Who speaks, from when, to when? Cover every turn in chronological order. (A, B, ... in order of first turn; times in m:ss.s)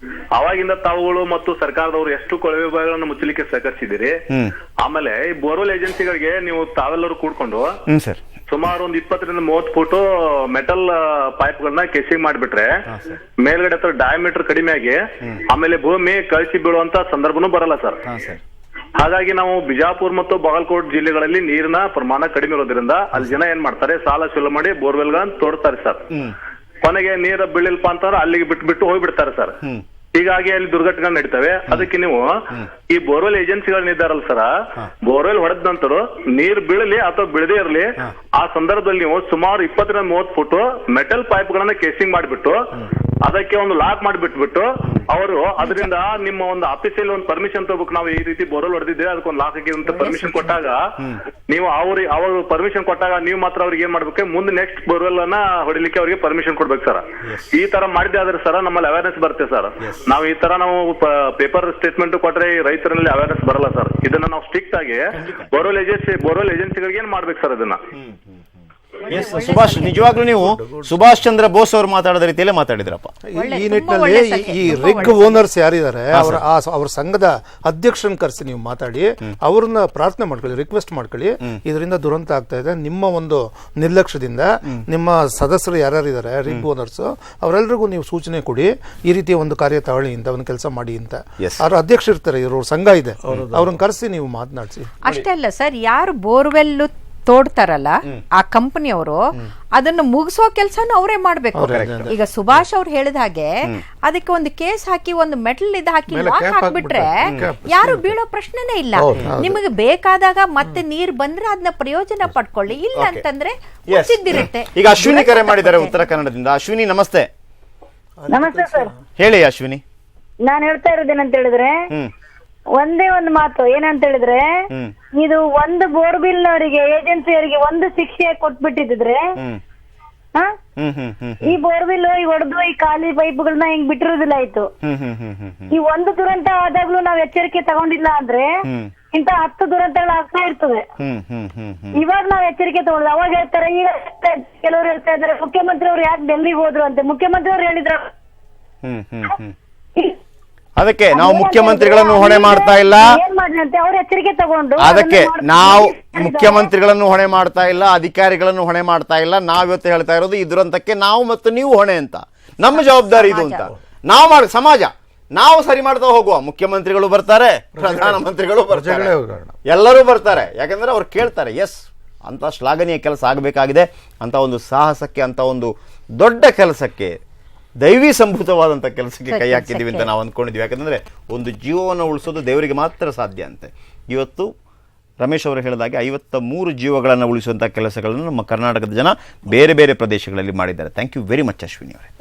0:00.4-0:04.1 A
0:04.8-0:07.7 A
0:07.9-0:08.2 B
0:08.5-0:12.7 A
0:12.9-0:13.2 B
0:13.4-0:15.0 A
0:15.5-0:18.0 A
0:18.0-0:18.4 B
0:19.0-0:26.0 A
0:23.2-0:23.4 B
0:26.8-0:29.5 A
0:30.2-0:32.3 A
0:32.9-0:34.5 A
0:35.1-0:42.7 A
0:43.2-0:50.8 A
0:45.6-0:45.9 C
0:49.9-0:50.6 C
0:51.5-0:57.0 A
0:57.2-0:57.5 B
0:57.5-1:05.0 A
0:59.8-1:00.1 B
1:05.1-1:05.6 B
1:05.5-1:07.8 A
1:07.9-1:13.1 B
1:09.0-1:10.1 C
1:09.9-1:11.0 D
1:13.4-1:34.9 E
1:13.4-1:15.4 C
1:16.1-1:16.4 B
1:33.2-1:33.8 D
1:35.0-1:39.2 C
1:39.8-1:43.5 C
1:41.6-1:42.1 E
1:41.7-1:42.1 B
1:44.0-1:56.0 C
1:46.1-1:48.2 D
1:49.0-1:49.3 D
1:49.3-1:49.6 E
1:53.0-1:53.2 B
1:53.9-1:57.3 B
1:58.2-1:58.9 E
1:58.3-1:58.9 F
1:59.2-1:59.8 B
2:00.4-2:01.8 F
2:02.8-2:04.5 F
2:05.2-2:09.4 F
2:10.8-2:11.5 B
2:11.4-2:14.7 F
2:14.8-2:15.8 B
2:15.7-2:20.8 F
2:18.7-2:19.0 B
2:21.0-2:22.0 B
2:21.9-2:28.1 F
2:28.8-2:29.6 B
2:30.8-2:33.2 B
2:31.1-2:36.7 F
2:34.8-2:49.1 B
2:42.7-2:43.7 C
2:47.8-2:49.6 D
2:49.7-2:57.2 B
2:57.8-3:04.5 B
2:59.3-3:00.1 C
3:05.2-3:12.1 B